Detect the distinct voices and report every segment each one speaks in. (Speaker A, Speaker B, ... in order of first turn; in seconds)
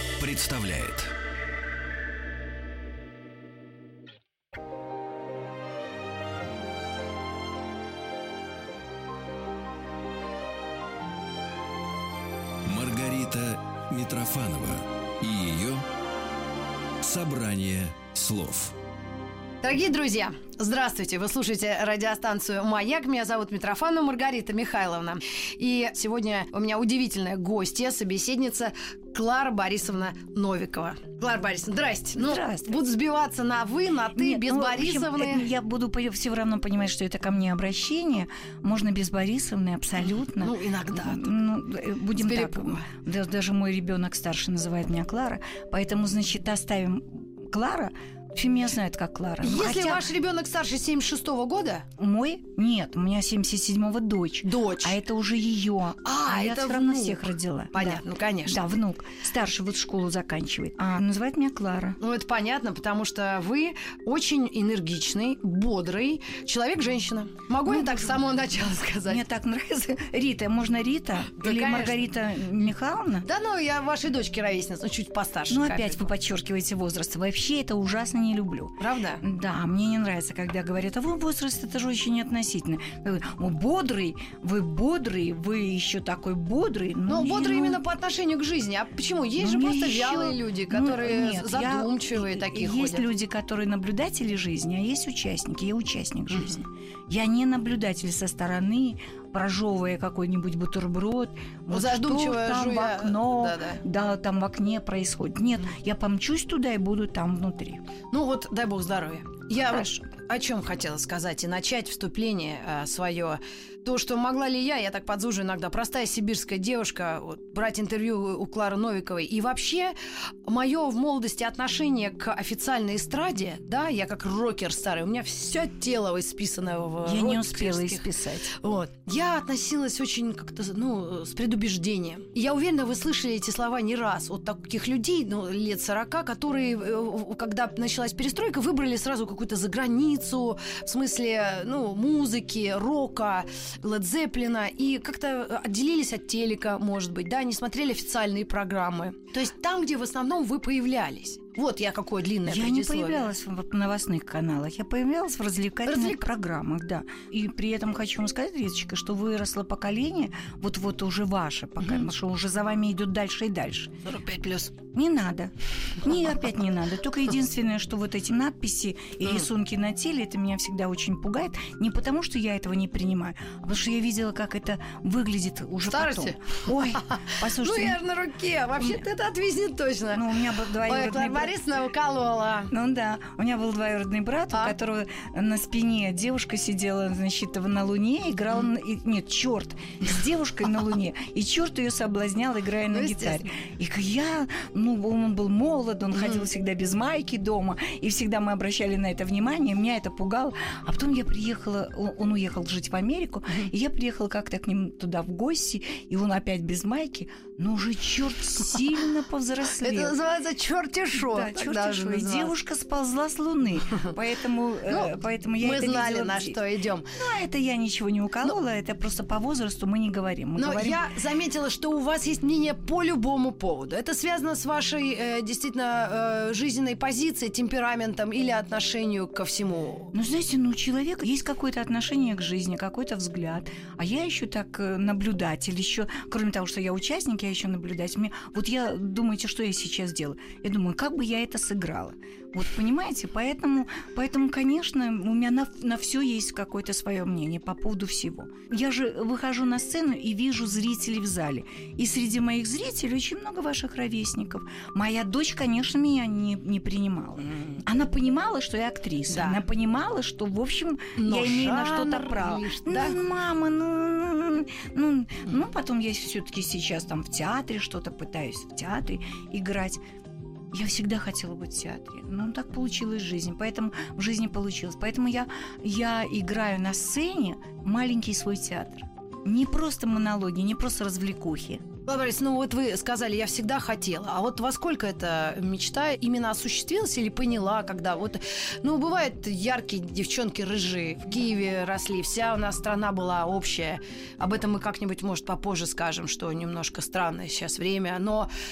Speaker A: 0.2-1.1, 12.6-15.8, 17.0-18.7
Speaker B: 19.6-35.5, 40.0-41.3, 42.2-42.9, 49.4-51.9, 54.4-55.0, 56.0-58.6, 62.0-69.2, 71.3-72.0, 73.2-76.1, 78.8-79.2, 87.1-93.0, 101.7-103.8, 108.1-119.9, 120.5-153.3, 155.8-156.2, 164.0-164.7, 175.8-182.7, 192.9-193.5, 209.8-212.5, 214.9-217.1, 220.6-230.1, 257.4-257.8, 259.3-259.6, 261.1-263.2, 282.1-298.5
Speaker C: 32.1-32.8, 34.1-50.1, 52.0-62.0, 67.6-68.2, 69.1-73.3, 75.5-87.8, 89.4-107.8, 109.7-110.0, 127.0-128.6, 152.4-163.9, 164.8-178.0, 180.1-181.5, 182.7-210.2, 211.1-216.6, 217.1-221.1, 230.1-270.0, 270.7-281.9